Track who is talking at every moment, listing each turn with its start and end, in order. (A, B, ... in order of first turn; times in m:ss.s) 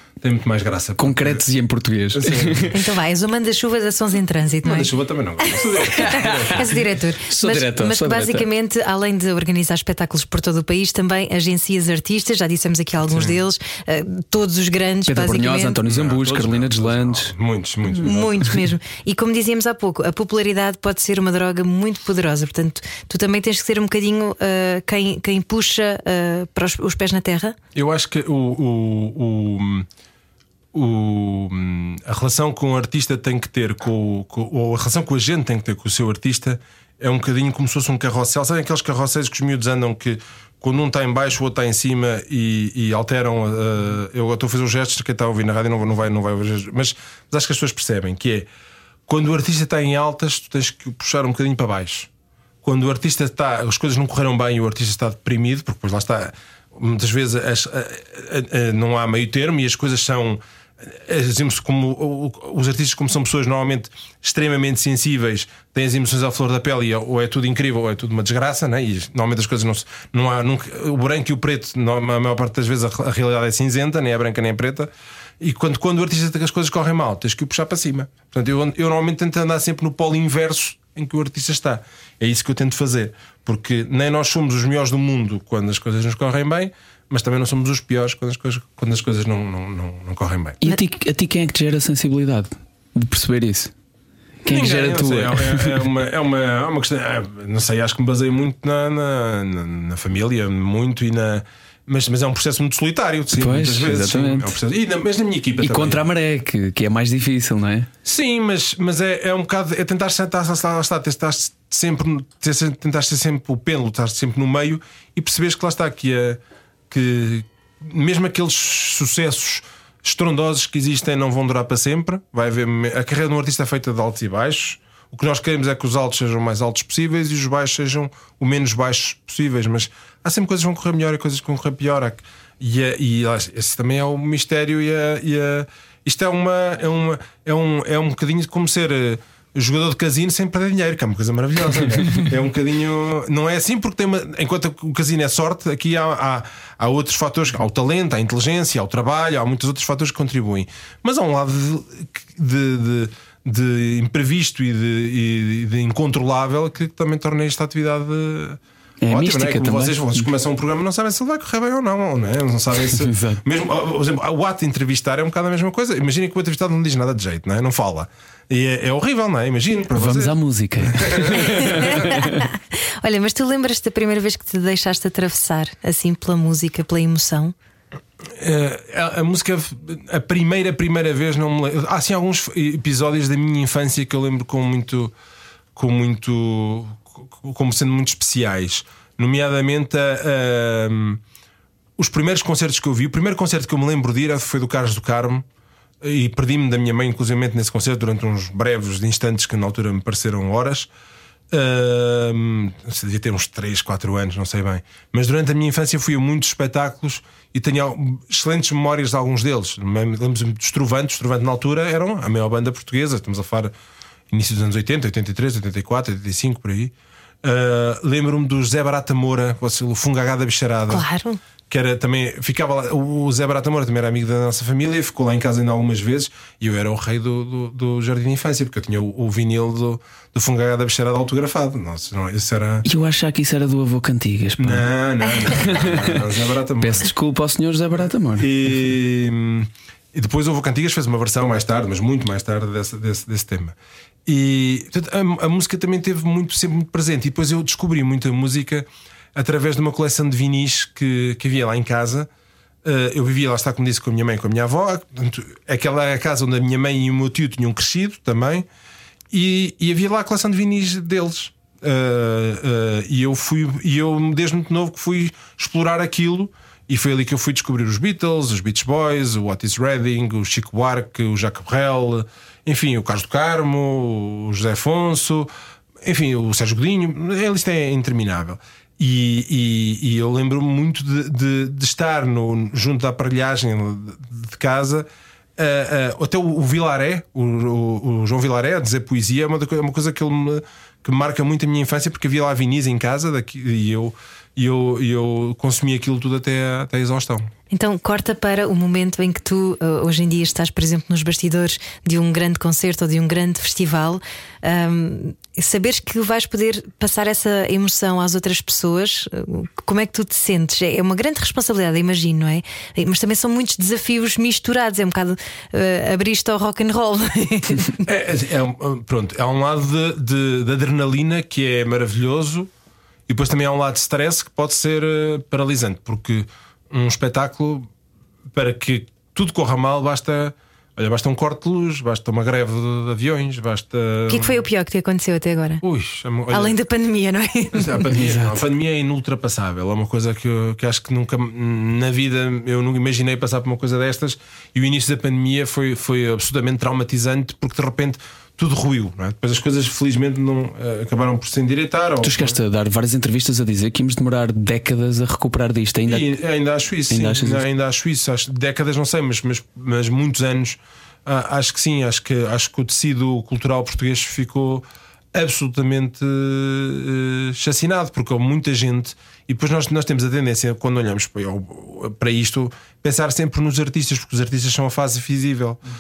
0:00.2-0:01.4 A
0:01.0-0:02.7 B
0:02.1-0:02.8 A
0:02.7-0:04.9 C
0:04.6-0:06.8 A
0:05.5-0:15.8 C
0:06.0-0:06.8 B
0:07.3-0:08.5 B
0:13.1-0:13.4 A
0:15.1-0:17.3 B
0:15.8-0:18.5 A
0:18.0-0:27.6 C
0:27.8-0:29.9 A
0:30.7-0:48.5 A
0:49.1-0:52.1 A
0:52.6-1:30.6 A
1:30.6-1:33.7 B
1:34.4-1:35.8 B
1:34.5-1:46.0 A
1:43.4-1:44.6 B
1:45.6-1:47.9 B
1:48.0-2:50.3 A
2:39.0-2:40.3 B
2:43.0-2:43.4 B
2:49.9-2:52.4 B
2:50.9-2:52.0 A
2:51.9-2:52.5 C
2:53.0-2:57.5 C
2:58.4-3:05.1 A
3:05.8-3:11.2 A
3:12.0-3:15.5 A
3:16.0-3:20.9 A
3:21.5-3:33.7 A
3:34.3-3:41.1 A
3:40.9-3:41.4 C
3:41.7-3:52.8 A
3:52.8-3:54.9 B
3:54.6-3:57.1 A
3:55.4-3:56.2 B
3:56.8-3:58.5 B
3:58.4-4:03.8 A
4:04.3-4:12.3 A
4:12.8-4:18.7 A
4:19.3-4:35.5 A
4:36.0-4:57.5 A
4:57.7-5:18.0 C
5:18.0-5:22.7 A
5:23.3-5:27.9 A
5:28.5-5:34.6 A
5:34.3-5:35.8 C
5:35.8-5:36.8 A
5:36.5-5:38.1 C
5:37.7-5:52.6 A
5:38.1-5:38.6 B
5:52.2-5:56.3 B
5:56.1-6:15.8 A
5:57.1-5:57.6 B